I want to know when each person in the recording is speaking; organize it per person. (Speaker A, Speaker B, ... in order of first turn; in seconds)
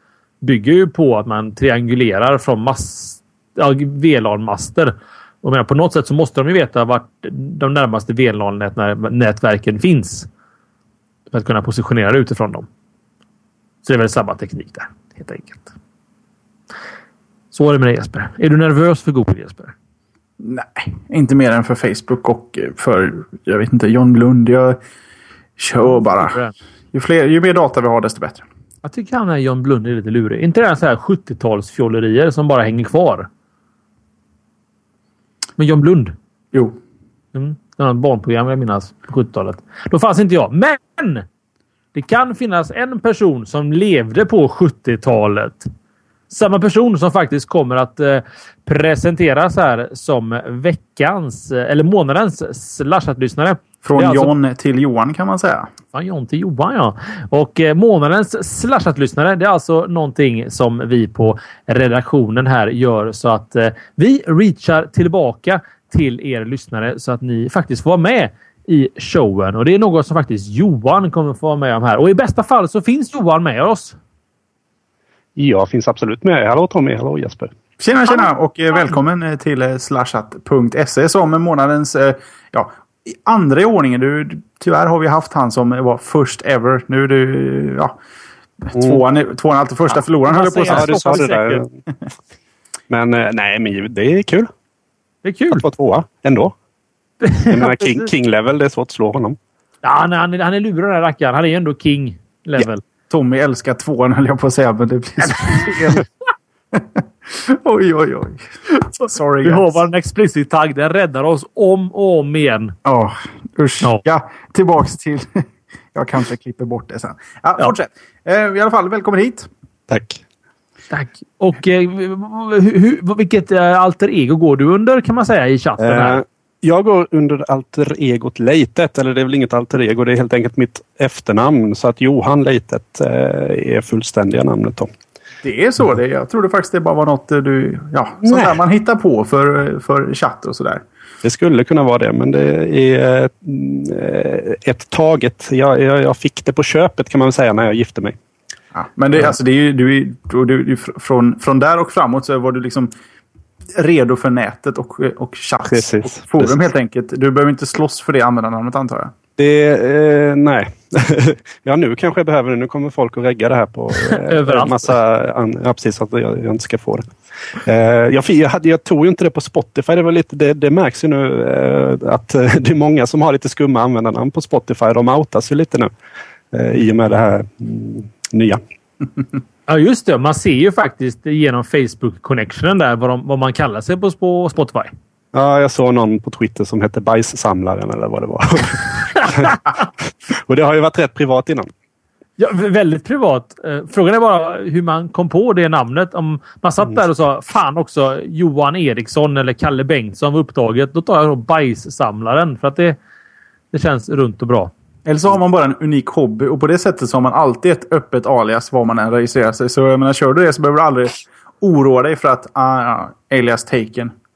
Speaker A: 0.4-10.3, 11.3-12.7, 13.8-15.7, 17.5-19.7, 26.0-26.5, 28.8-33.3, 35.6-36.1, 37.3-41.2, 41.9-45.7, 46.3-54.3, 55.9-74.0, 90.3-91.7, 95.2-95.7, 97.2-98.1, 99.8-102.8, 105.2-106.0, 109.4-112.8, 120.9-126.2, 164.0-164.9, 179.7-184.9, 192.4-203.0, 203.7-204.7
Speaker B: 20.4-24.8, 25.6-26.4, 26.9-28.4, 53.8-55.7, 77.8-88.0, 88.6-90.9, 103.1-106.0, 106.7-109.8, 112.8-119.5, 135.4-140.8, 148.7-152.9, 153.8-159.1, 205.1-214.1
Speaker C: 75.4-77.5, 88.8-89.0, 90.6-91.7, 92.9-94.5, 95.5-96.5, 97.5-99.4, 119.9-120.2, 125.8-134.9, 138.2-138.6, 141.2-148.2, 155.7-156.6, 159.4-175.9, 176.5-178.6, 185.3-191.7